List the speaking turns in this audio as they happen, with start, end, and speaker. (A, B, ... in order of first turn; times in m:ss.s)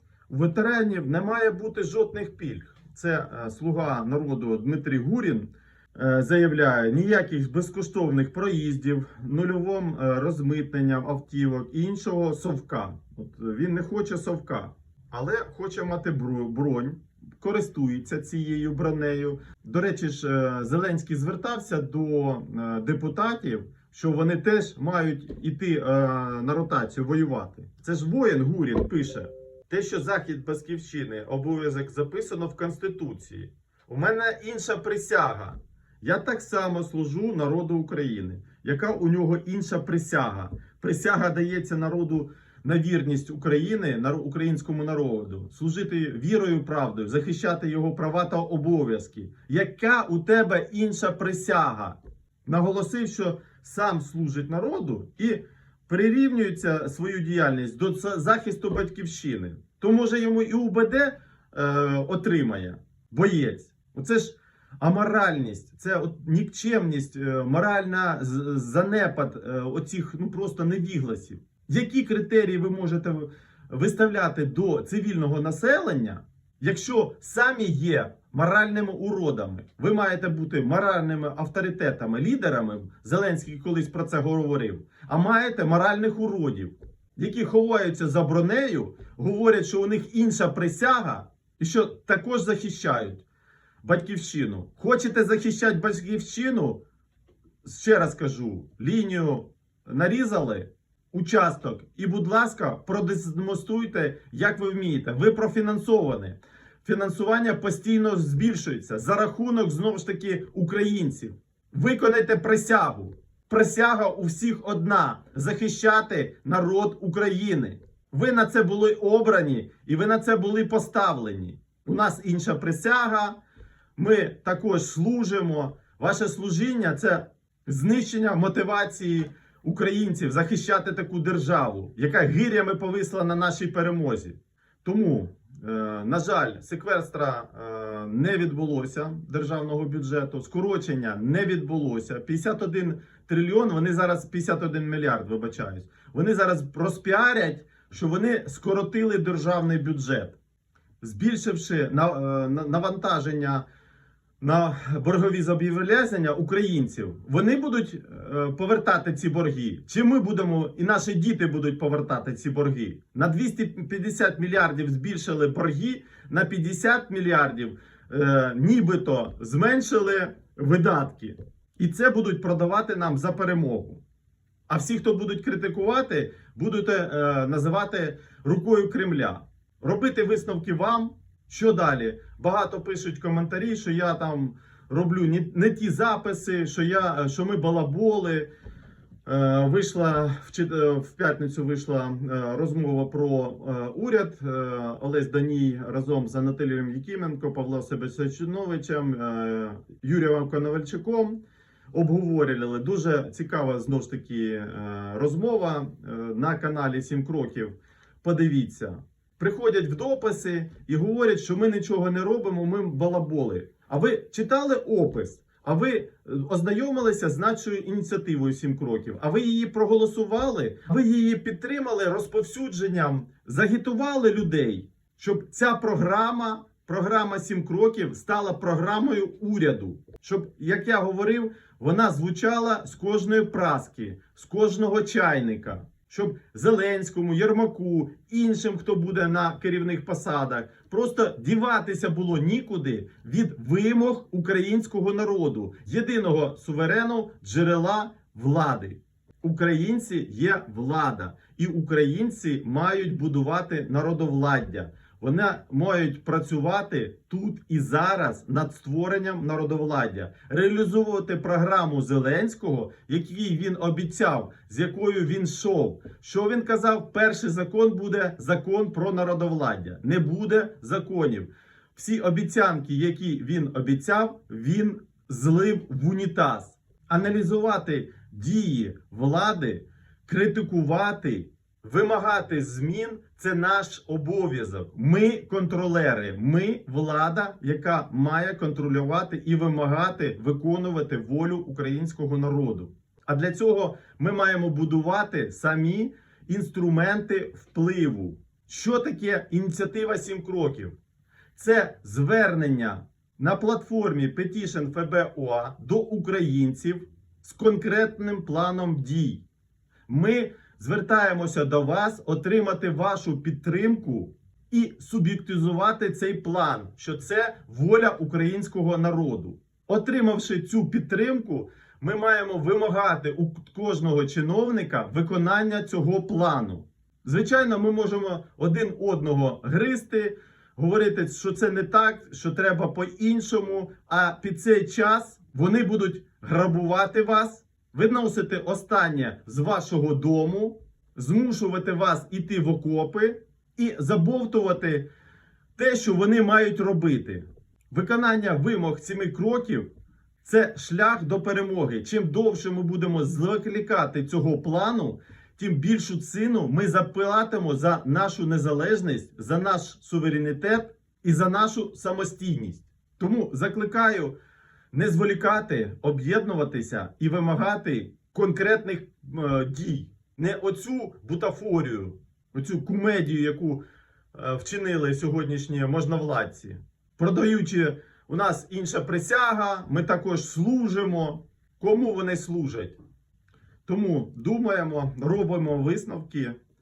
0:00.3-1:33.2 A
1:33.8-1:36.8 A
1:37.6-2:03.4 A
2:04.0-2:30.4 A
2:31.0-2:33.6 A
2:34.4-2:54.0 A
2:54.7-3:08.5 A
3:09.3-3:21.4 A
3:21.9-5:01.0 A
5:01.6-5:09.4 A
5:10.1-5:45.1 A
5:45.8-5:49.9 A
5:50.4-6:04.3 A
6:04.9-6:13.8 A
6:14.3-6:23.0 A
6:23.9-6:26.6 A